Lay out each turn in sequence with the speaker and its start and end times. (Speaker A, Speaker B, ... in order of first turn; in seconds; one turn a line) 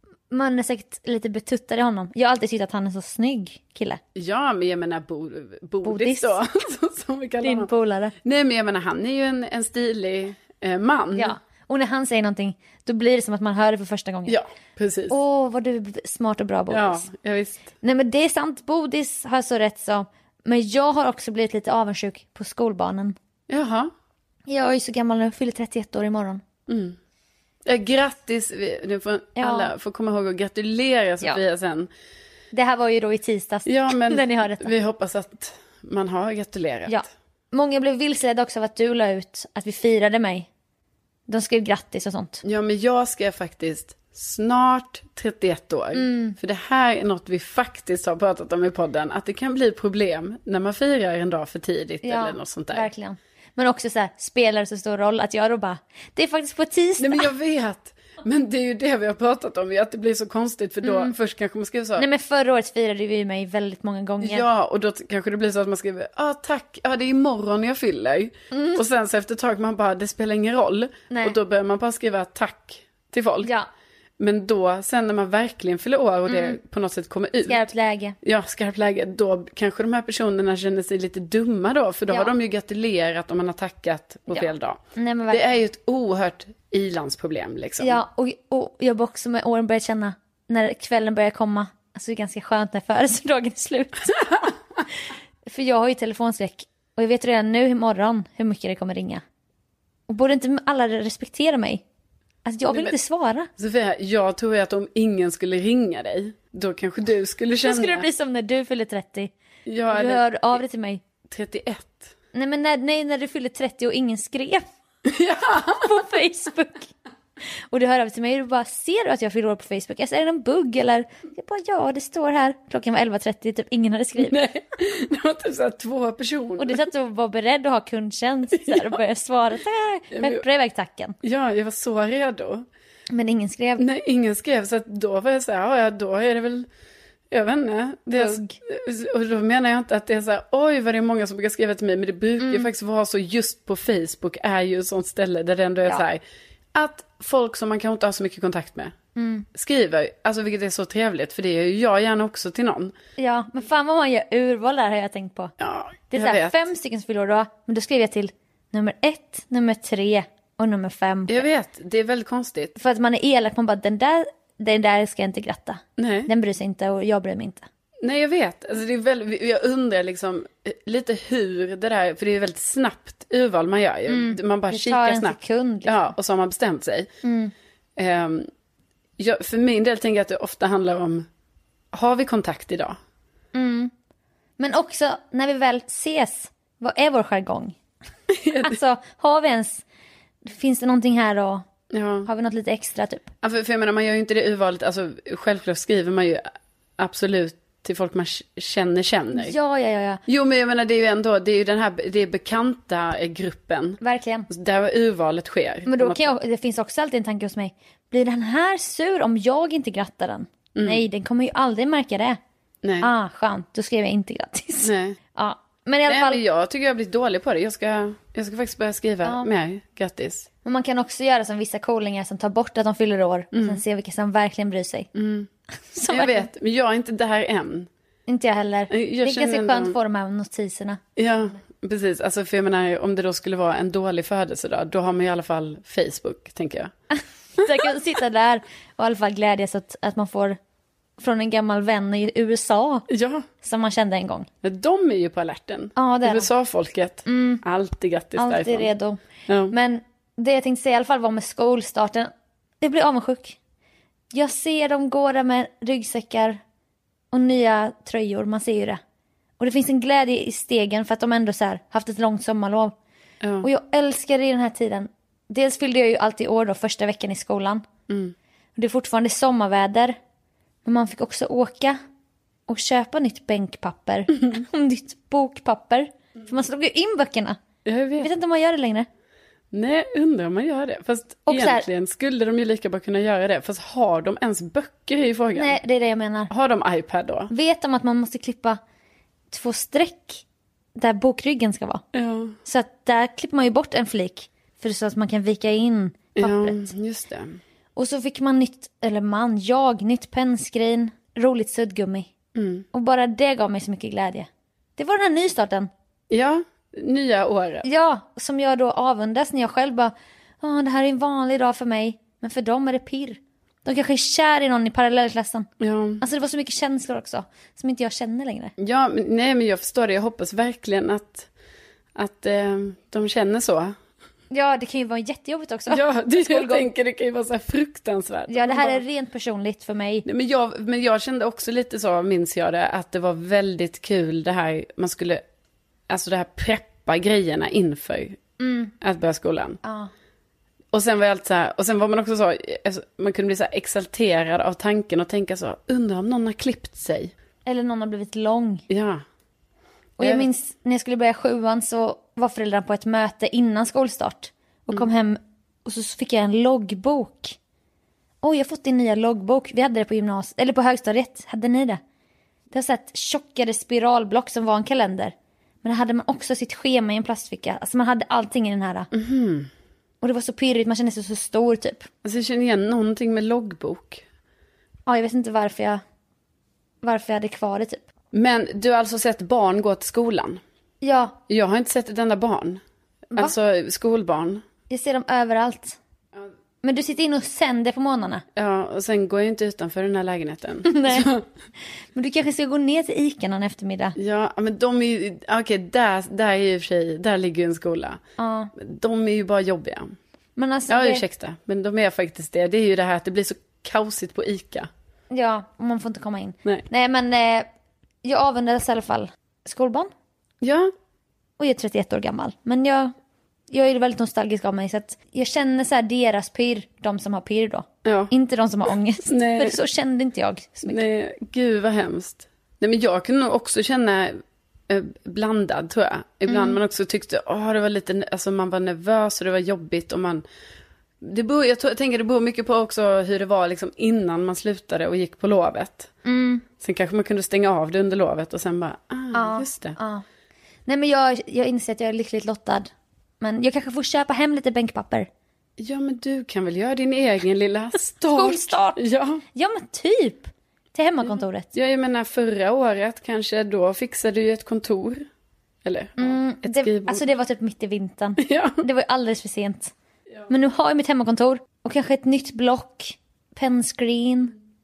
Speaker A: 0.3-4.0
Speaker B: 4.2-7.7
Speaker A: 5.8-6.4
Speaker A: 7.4-8.1
Speaker B: 8.2-11.3
Speaker A: 11.2-14.4
Speaker B: 14.3-15.2
Speaker A: 15.1-17.1
Speaker B: 16.7-17.6
Speaker A: 17.8-23.2
Speaker B: 23.5-23.9
Speaker A: 24.5-26.4
Speaker B: 26.7-27.0
Speaker B: 27.7-31.9
Speaker A: 29.4-29.7
Speaker A: 32.5-34.7
Speaker B: 33.7-37.0
Speaker A: 36.9-40.5
Speaker A: 41.3-42.4
Speaker B: 42.4-52.9
Speaker A: 46.0-46.4
Speaker A: 52.0-57.3
Speaker B: 57.0-62.1
Speaker A: 60.8-61.1
Speaker A: 62.0-64.5
Speaker B: 64.2-73.5
Speaker A: 68.5-68.8
Speaker A: 71.1-71.4
Speaker A: 73.4-73.7
Speaker B: 74.2-77.6
Speaker A: 76.3-76.6
Speaker A: 77.5-78.2
Speaker B: 78.2-84.8
Speaker A: 84.3-85.5
Speaker B: 85.3-88.0
Speaker A: 87.8-94.2
Speaker B: 94.2-94.5
Speaker A: 95.5-99.2
Speaker A: 100.1-101.8
Speaker A: 102.5-103.5
Speaker B: 103.6-108.1
Speaker A: 107.6-109.3
Speaker B: 109.7-110.3
Speaker A: 109.9-111.0
Speaker B: 111.3-112.1
Speaker A: 112.3-114.7
Speaker B: 115.1-115.9
Speaker A: 115.8-116.9
Speaker A: 117.7-124.4
Speaker B: 124.2-126.8
Speaker A: 126.6-131.2
Speaker B: 128.6-129.0
Speaker B: 130.1-130.4
Speaker B: 131.2-132.7
Speaker A: 133.1-133.8
Speaker B: 133.8-136.7
Speaker B: 137.3-146.2
Speaker A: 138.2-138.6
Speaker A: 142.4-142.7
Speaker B: 146.8-148.9
Speaker A: 149.2-149.5
Speaker B: 149.5-152.9
Speaker A: 153.2-155.5
Speaker B: 155.6-156.7
Speaker A: 156.1-161.4
Speaker B: 161.3-162.8
Speaker A: 162.8-167.7
Speaker B: 166.0-166.3
Speaker B: 168.0-177.1
Speaker A: 174.1-176.1
Speaker A: 177.2-177.5
Speaker B: 178.0-178.5
Speaker B: 179.2-181.3
Speaker B: 181.9-183.0
Speaker A: 183.5-183.9
Speaker A: 184.6-187.8
Speaker B: 188.3-188.8
Speaker A: 188.6-189.8
Speaker A: 190.4-191.7
Speaker B: 191.9-192.3
Speaker A: 192.3-193.3
Speaker B: 193.4-196.5
Speaker B: 197.0-199.6
Speaker A: 199.3-200.2
Speaker B: 200.3-206.3
Speaker A: 204.0-204.5
Speaker A: 205.9-212.4
Speaker B: 210.8-211.0
Speaker B: 212.8-213.1
Speaker A: 213.0-216.4
Speaker B: 214.8-215.2
Speaker B: 216.1-220.5
Speaker A: 220.7-225.1
Speaker B: 223.5-223.8
Speaker B: 225.2-225.5
Speaker A: 225.9-226.5
Speaker B: 226.1-227.9
Speaker A: 228.3-231.0
Speaker B: 228.9-230.0
Speaker B: 231.2-236.9
Speaker A: 237.1-240.6
Speaker A: 241.2-243.1
Speaker B: 243.1-243.5
Speaker A: 243.6-244.5
Speaker B: 244.6-248.9
Speaker A: 246.0-246.5
Speaker A: 247.3-247.6
Speaker A: 248.4-253.6
Speaker B: 249.5-249.7
Speaker A: 254.3-256.6
Speaker A: 257.3-259.0
Speaker A: 259.6-262.9
Speaker B: 263.4-263.7
Speaker A: 263.6-267.8
Speaker B: 268.1-268.3
Speaker A: 268.8-270.2
Speaker A: 270.9-272.0
Speaker A: 272.7-277.6
Speaker B: 277.9-278.3
Speaker A: 278.2-279.1
Speaker B: 279.7-285.8
Speaker A: 281.5-281.9
Speaker A: 285.6-286.5
Speaker B: 286.5-287.5
Speaker A: 287.5-288.8
Speaker A: 289.5-290.4
Speaker A: 291.0-292.0
Speaker B: 292.1-292.6
Speaker A: 292.6-296.9
Speaker B: 296.4-297.6
Speaker A: 298.0-302.3
Speaker B: 302.6-302.9
Speaker A: 302.9-305.9
Speaker B: 306.3-307.9
Speaker A: 307.8-315.7
Speaker B: 315.8-316.2
Speaker A: 316.2-318.7
Speaker B: 318.8-321.5
Speaker B: 322.2-323.9
Speaker A: 324.5-326.9
Speaker B: 325.9-329.0
Speaker A: 328.5-330.2
Speaker B: 330.2-335.4
Speaker B: 336.1-338.4
Speaker A: 338.6-338.9
Speaker B: 339.0-339.8
Speaker A: 339.8-340.1
Speaker B: 340.9-347.3
Speaker A: 347.7-348.9
Speaker B: 348.9-349.2
Speaker A: 350.2-357.6
Speaker B: 350.2-350.5
Speaker A: 358.4-362.0
Speaker A: 362.7-369.1
Speaker B: 369.1-369.7
Speaker A: 370.2-372.1
Speaker B: 372.2-374.2
Speaker A: 375.1-376.0
Speaker A: 377.0-378.1
Speaker B: 378.3-380.6
Speaker A: 381.0-381.4
Speaker B: 381.5-382.8
Speaker B: 383.4-384.6
Speaker A: 384.9-386.0
Speaker A: 386.8-388.4
Speaker B: 388.6-391.4
Speaker A: 390.9-391.3
Speaker A: 392.1-394.2
Speaker B: 394.2-398.2
Speaker A: 398.4-398.7
Speaker B: 398.8-400.1
Speaker A: 400.6-401.2
Speaker B: 400.9-404.9
Speaker A: 405.3-407.7
Speaker A: 408.2-410.1
Speaker B: 410.6-410.9
Speaker A: 411.6-413.1
Speaker A: 413.7-421.0
Speaker B: 418.1-418.3
Speaker B: 419.2-419.8
Speaker B: 420.9-430.4
Speaker A: 426.5-426.8
Speaker B: 431.2-436.1
Speaker A: 436.2-436.6
Speaker B: 436.8-440.0
Speaker A: 439.3-440.2
Speaker A: 440.9-442.9
Speaker A: 443.4-445.3
Speaker B: 445.8-449.4
Speaker A: 448.3-449.0
Speaker A: 449.6-451.7
Speaker B: 451.3-455.3
Speaker B: 455.9-457.2
Speaker A: 456.2-459.9
Speaker B: 458.4-458.8
Speaker A: 460.5-464.5